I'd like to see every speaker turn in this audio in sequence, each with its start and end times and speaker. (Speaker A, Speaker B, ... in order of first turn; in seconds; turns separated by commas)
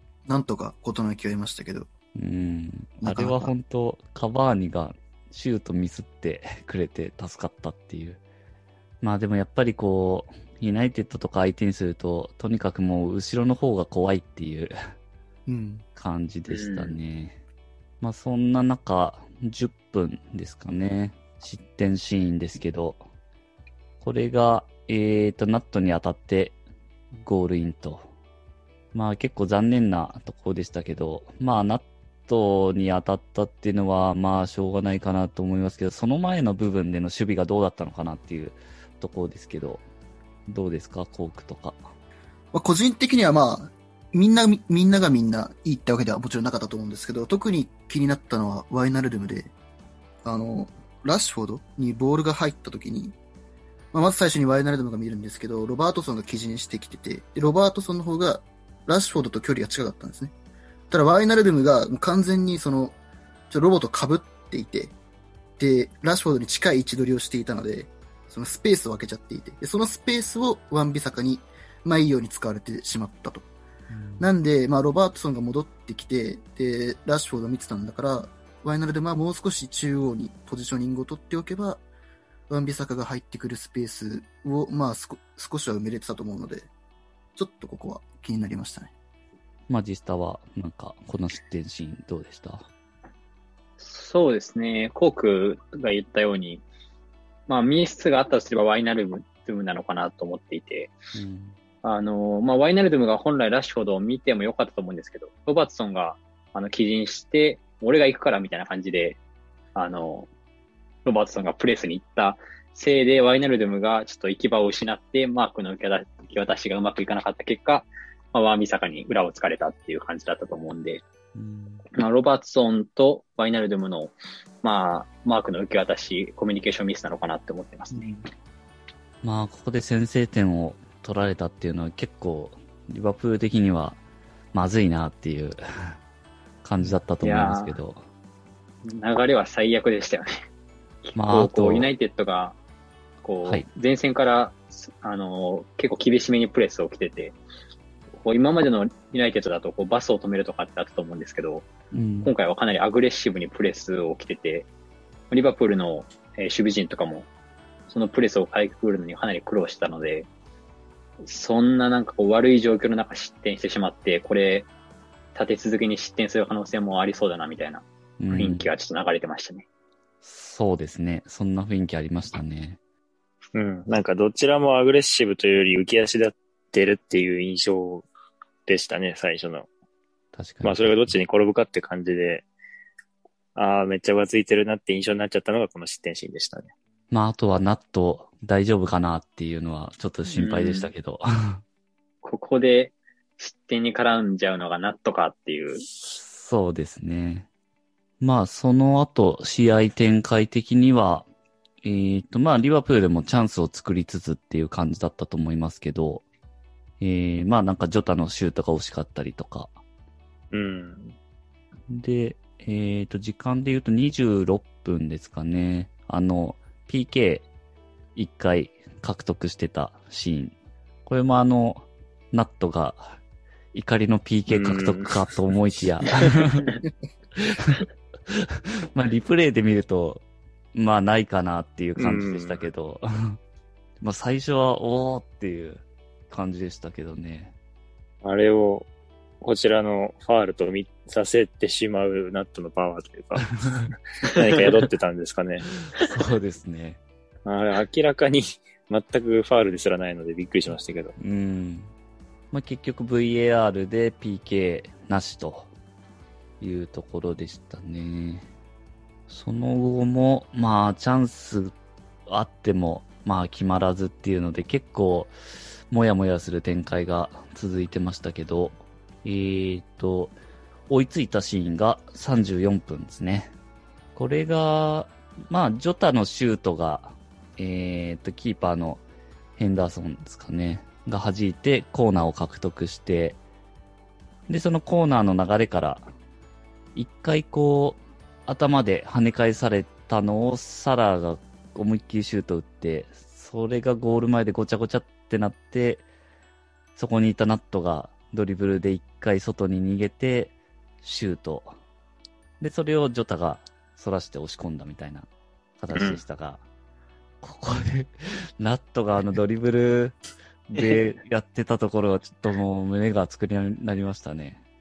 Speaker A: 0.2-1.9, Speaker B: 2.1-8.2, Speaker A: 3.0-3.5, Speaker B: 9.0-14.8, Speaker A: 15.4-15.8, Speaker B: 15.9-17.4, Speaker C: 16.4-17.0, Speaker B: 18.0-23.0, Speaker B: 24.0-26.6, Speaker B: 27.1-28.1, Speaker B: 28.9-39.8, Speaker B: 40.5-41.8, Speaker A: 42.5-49.5, Speaker A: 50.2-53.1, Speaker A: 53.9-60.3, Speaker A: 60.9-63.0, Speaker A: 63.5-64.9, Speaker A: 65.6-73.5, Speaker B: 73.9-74.3, Speaker A: 74.2-81.8, Speaker A: 82.5-86.7, Speaker A: 87.3-88.9, Speaker B: 89.7-92.7, Speaker C: 93.8-96.6, Speaker C: 97.5-100.9, Speaker B: 101.1-101.6, Speaker C: 101.8-109.2, Speaker C: 109.7-110.3, Speaker C: 111.0-121.0, Speaker B: 121.3-121.8, Speaker C: 122.0-128.1, Speaker A: 127.9-128.2, Speaker B: 129.2-134.0, Speaker B: 134.5-136.0, Speaker B: 136.6-138.0, Speaker C: 137.2-137.7, Speaker C: 138.8-140.3, Speaker C: 141.0-142.6, Speaker B: 141.1-141.9, Speaker C: 143.2-147.4, Speaker C: 148.2-151.7, Speaker B: 151.9-152.3, Speaker C: 152.2-154.7, Speaker C: 155.3-157.3, Speaker C: 157.9-160.3, Speaker C: 161.2-164.7, Speaker C: 165.3-169.7, Speaker B: 168.2-168.7, Speaker B: 170.2-172.8, Speaker D: 173.5-178.1, Speaker D: 178.7-179.7, Speaker B: 180.3-181.2, Speaker D: 180.6-182.4, Speaker D: 183.5-186.7, Speaker B: 187.1-191.6, Speaker C: 190.4-190.9, Speaker C: 192.2-195.9, Speaker B: 196.1-197.5, Speaker B: 198.2-201.3, Speaker B: 201.8-206.2, Speaker B: 207.0-209.7, Speaker D: 210.5-211.2, Speaker B: 211.9-217.5, Speaker B: 218.1-220.5, Speaker B: 221.1-223.2, Speaker B: 223.7-226.7, Speaker D: 224.5-225.1, Speaker B: 227.4-230.2, Speaker B: 230.7-233.4, Speaker D: 232.0-232.6, Speaker B: 234.0-237.5, Speaker D: 238.2-238.9, Speaker D: 239.4-243.7, Speaker D: 244.3-245.7, Speaker B: 245.8-247.0, Speaker D: 247.4-251.2, Speaker B: 251.2-251.9, Speaker B: 252.5-255.7, Speaker B: 256.6-258.5, Speaker B: 259.3-261.7, Speaker B: 262.3-265.3, Speaker B: 265.9-270.4, Speaker B: 270.9-273.5, Speaker B: 274.1-279.0, Speaker B: 279.6-283.4, Speaker B: 284.5-286.1, Speaker B: 286.9-296.1, Speaker B: 296.9-301.8, Speaker B: 302.6-305.3, Speaker B: 305.8-306.6, Speaker D: 305.9-306.2, Speaker B: 307.4-314.6